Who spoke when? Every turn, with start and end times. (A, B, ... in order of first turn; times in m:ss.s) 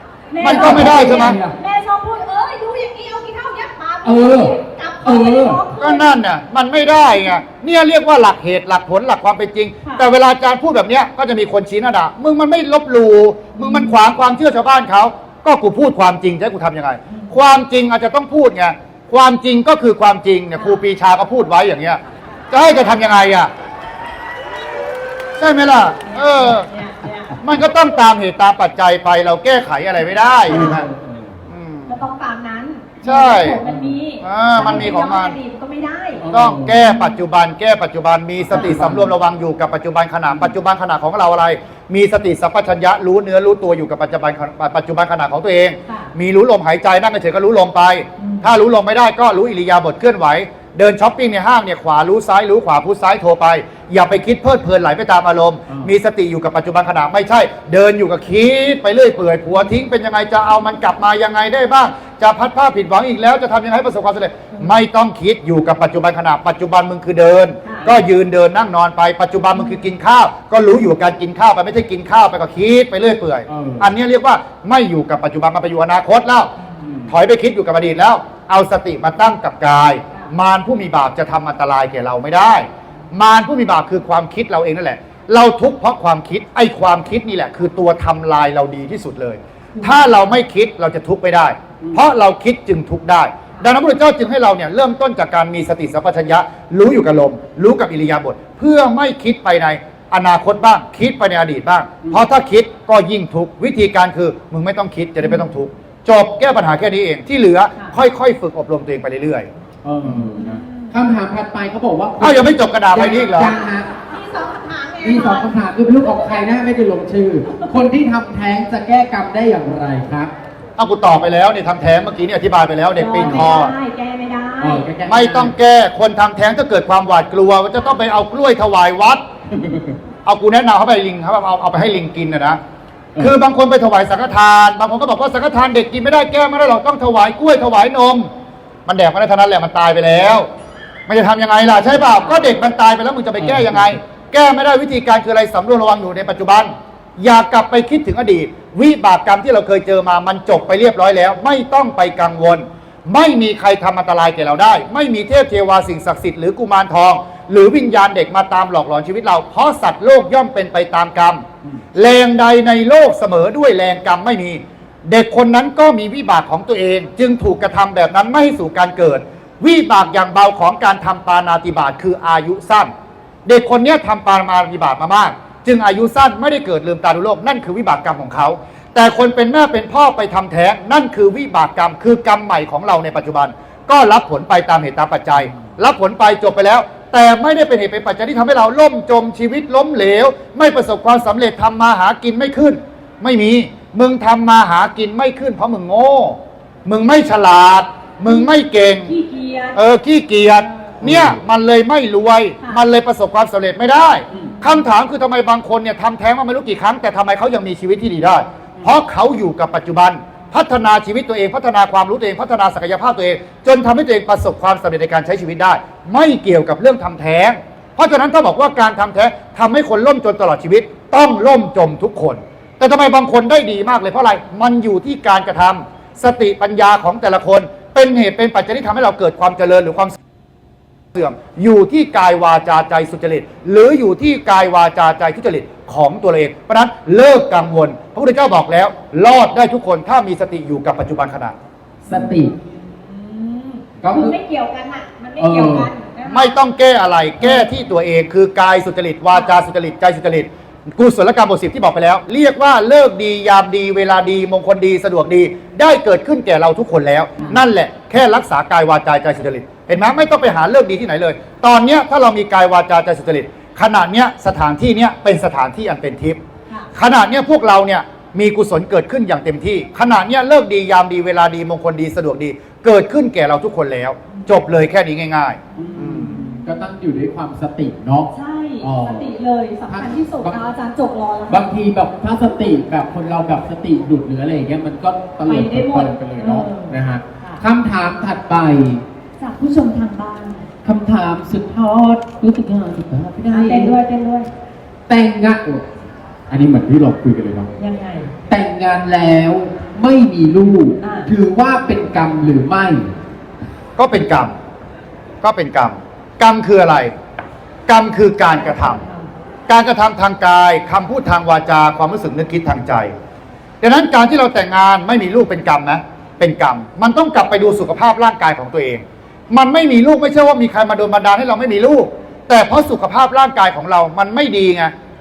0:00.3-0:06.1 A
0:00.4-0:01.4 B
0:00.4-0:01.6 C
0:04.0-0:05.6 C
0:05.8-0:22.0 B
0:13.6-0:14.1 A
0:17.1-0:17.4 A
0:20.6-0:20.8 A
0:22.5-0:23.5 B
0:25.4-0:26.7 B
0:26.0-0:27.4 A
0:27.4-0:30.9 B
0:30.4-0:31.4 C
0:30.5-0:30.8 A
0:31.5-0:32.0 B
0:31.9-0:36.2 A
0:33.0-0:33.6 B
0:33.6-0:34.0 C
0:34.2-0:35.4 B
0:34.6-0:35.0 C
0:36.2-0:36.8 C
0:36.3-1:16.5 B
0:36.8-0:37.2 A
0:38.4-0:39.1 C
0:38.5-0:38.8 A
0:48.2-0:48.5 A
1:07.6-1:08.0 A
1:09.6-1:09.8 A
1:13.5-1:13.9 C
1:16.8-1:17.2 C
1:17.1-1:49.5 B
1:29.8-1:30.1 A
1:49.8-1:53.9 C
1:50.1-1:50.9 A
1:52.2-1:53.5 B
1:54.0-1:55.6 A
1:55.0-2:00.3 C
2:00.8-2:03.7 B
2:03.0-2:04.9 A
2:03.2-2:03.5 C
2:04.6-2:05.5 C
2:05.1-2:09.2 B
2:09.6-2:09.9 C
2:10.2-2:12.6 B
2:13.2-2:18.3 B
2:18.9-2:20.5 B
2:21.1-2:41.4 B
2:22.1-2:22.5 A
2:23.4-2:24.0 C
2:41.9-2:52.9 B
2:53.5-3:19.1 B
3:05.4-3:05.8 C
3:18.2-3:19.8 A
3:19.8-3:50.2 B
3:21.0-3:21.4 C
3:24.3-3:24.9 A
3:51.1-4:01.6 B
4:02.1-4:02.5 C
4:02.1-4:06.6 A
4:04.0-4:04.4 C
4:05.4-4:05.9 C
4:06.3-4:26.4 B
4:09.3-4:09.6 A
4:26.9-4:36.4 B
4:34.3-4:34.6 A
4:35.8-4:39.3 C
4:35.8-4:36.8 A
4:38.3-4:41.7 A
4:39.9-4:40.6 C
4:41.5-4:49.0 C
4:45.4-4:47.6 A
4:49.4-4:50.6 A
4:50.8-4:54.0 C
4:53.5-4:54.5 A
4:55.1-4:55.8 C
4:56.5-4:57.7 C
4:57.8-4:58.3 A
4:58.5-5:03.1 C
5:01.0-5:01.3 A
5:04.0-5:04.5 B
5:05.4-5:07.1 B
5:07.9-5:09.0 B
5:08.5-5:09.3 A
5:09.7-5:13.1 B
5:13.8-5:24.9 B